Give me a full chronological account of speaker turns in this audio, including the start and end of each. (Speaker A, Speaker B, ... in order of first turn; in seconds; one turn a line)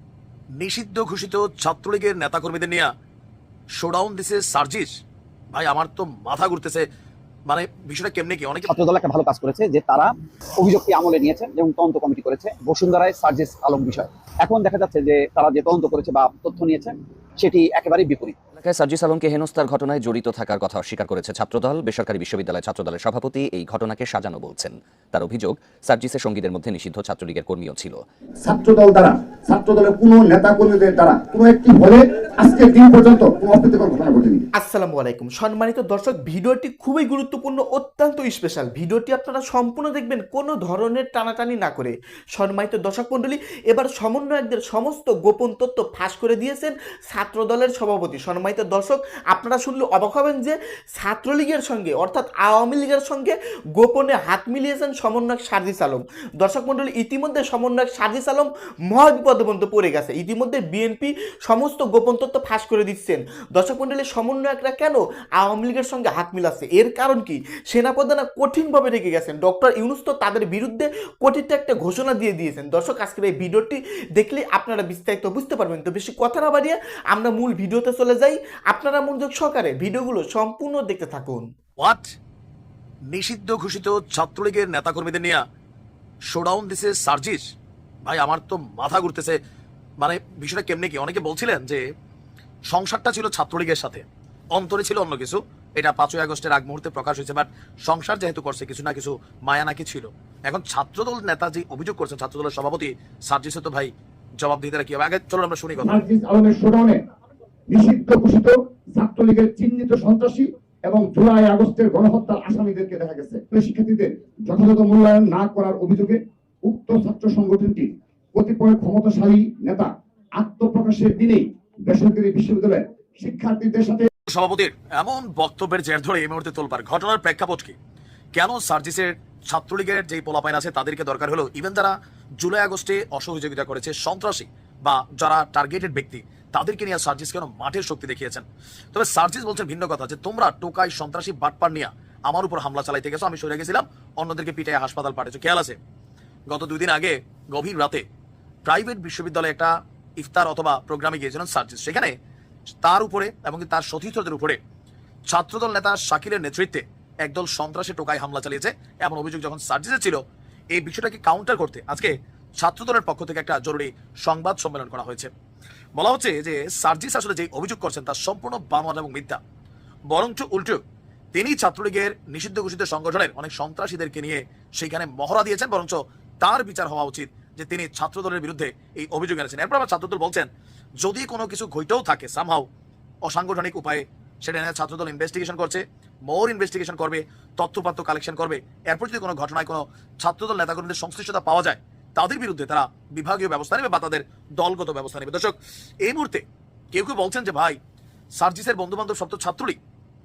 Speaker A: 0.6-2.9
Speaker A: 3.8-4.9
Speaker A: 5.5-6.8
Speaker A: 7.5-8.7
Speaker B: 8.7-18.4
Speaker C: 18.6-28.0
Speaker D: 28.4-34.5
Speaker E: 34.6-81.5
Speaker A: 81.8-82.1
Speaker A: 83.1-85.4
Speaker A: 86.3-87.4
Speaker A: 88.0-89.3
Speaker A: 90.0-91.8
Speaker A: 92.7-106.0
Speaker D: 105.8-107.0
Speaker D: 107.7-124.1
Speaker A: 124.3-127.8
Speaker A: 128.3-145.8
Speaker A: 146.5-148.0
Speaker A: 148.7-152.1
Speaker A: 152.8-154.6
Speaker A: 155.3-160.2
Speaker A: 160.7-165.3
Speaker A: 166.0-169.4
Speaker A: 170.1-170.8
Speaker A: 171.3-180.5
Speaker A: 181.0-182.7
Speaker A: 183.2-197.8
Speaker A: 198.4-199.8